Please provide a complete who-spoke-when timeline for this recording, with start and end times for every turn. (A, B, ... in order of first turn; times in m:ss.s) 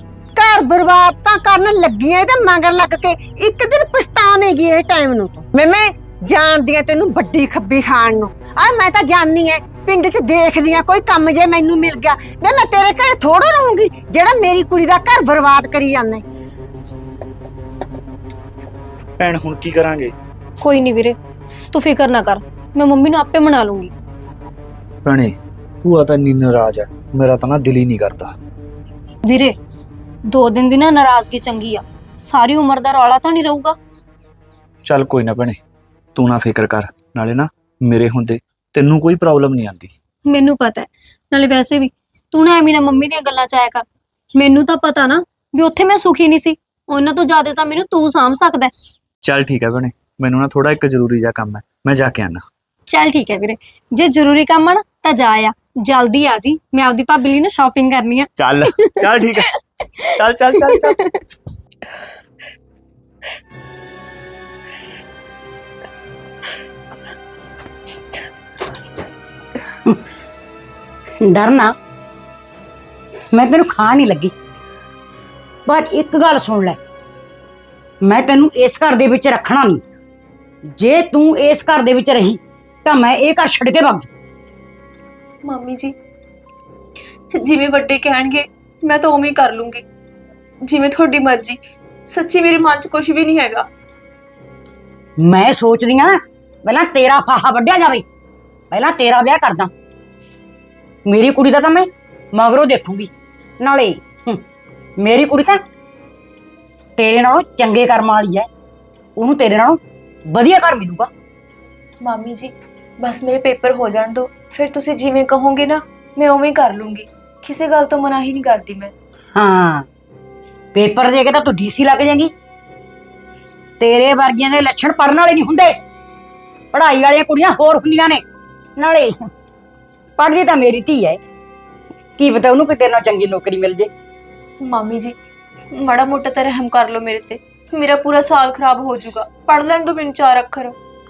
0:00.4-0:16.2 A
0:19.2-0:20.1 B
0:20.6-0:21.2 C
0:21.7-0:23.9 C
0:25.0-0:28.3 B
0:29.2-0:29.5 C
0:30.3-0:33.8 C
0:34.8-0:35.6 B
0:36.2-0:39.9 B
0:40.3-0:48.7 C
0:49.2-0:52.4 B
0:52.9-0:58.3 C
0:58.4-0:59.5 B
1:00.2-1:01.0 B
1:00.7-1:01.1 C
1:11.2-1:11.7 D
1:13.3-1:14.3 D
1:15.6-1:16.8 D
1:18.0-1:19.8 D
1:20.7-1:24.1 D
1:25.4-1:25.9 E
1:27.3-1:29.8 E
1:30.6-1:33.7 E
1:35.2-1:38.0 D
1:38.7-1:39.7 D
1:41.0-1:44.4 D
1:45.0-1:45.6 D
1:47.0-1:48.5 D
1:49.2-1:51.1 D
1:52.0-1:58.9 E
1:59.3-1:59.8 D
2:00.7-2:02.3 D
2:03.8-2:05.8 D
2:06.7-2:08.2 D
2:08.8-2:09.3 D
2:10.2-2:11.2 D
2:12.2-2:13.9 D
2:14.6-2:15.2 E
2:15.7-2:20.8 E